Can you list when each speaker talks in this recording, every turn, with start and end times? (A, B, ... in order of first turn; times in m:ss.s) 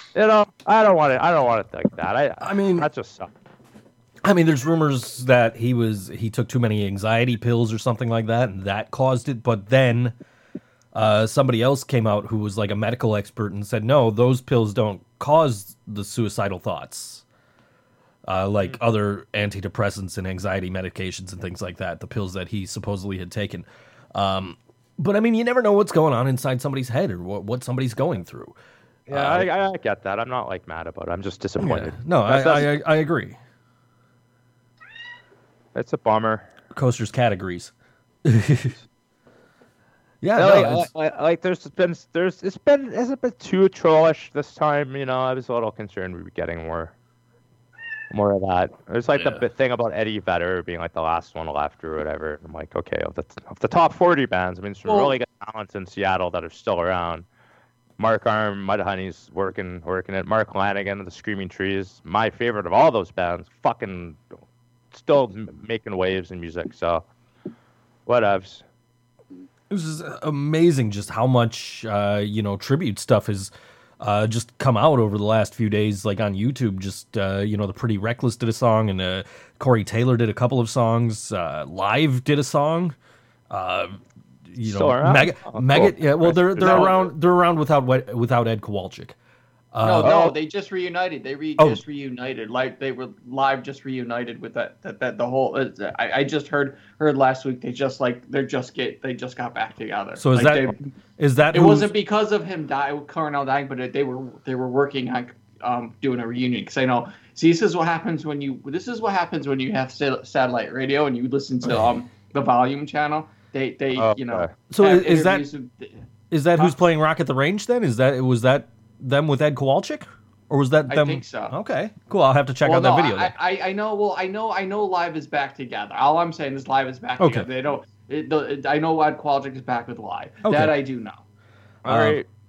0:00.2-0:03.3 A
0:02.4-0:02.9 B
0:04.2-0:10.2 B
0:10.9-0:17.2 B
0:18.3-0:28.6 B
0:29.1-0:29.5 B
0:29.1-0:32.7 A
0:31.6-0:33.4 B
0:35.8-0:36.5 A
0:36.7-0:37.7 B
0:38.3-0:38.7 B
0:40.2-0:40.9 B
0:40.4-0:47.0 A
0:48.1-0:57.3 A
0:49.2-0:49.4 B
0:58.0-1:04.2 A
1:04.9-1:07.0 A
1:08.1-1:08.6 A
1:09.7-1:23.0 B
1:23.5-1:29.2 B
1:24.6-1:27.0 A
1:26.6-1:27.0 C
1:29.7-1:30.1 B
1:29.8-1:40.8 C
1:30.0-1:30.4 A
1:40.2-1:41.9 B
1:41.5-1:56.0 C
1:54.0-1:54.5 A
1:54.7-1:55.5 B
1:56.3-2:03.3 B
2:00.9-2:01.6 C
2:02.6-2:11.2 C
2:07.2-2:07.5 B
2:10.4-2:10.8 B
2:11.8-2:12.3 A
2:11.9-2:12.2 B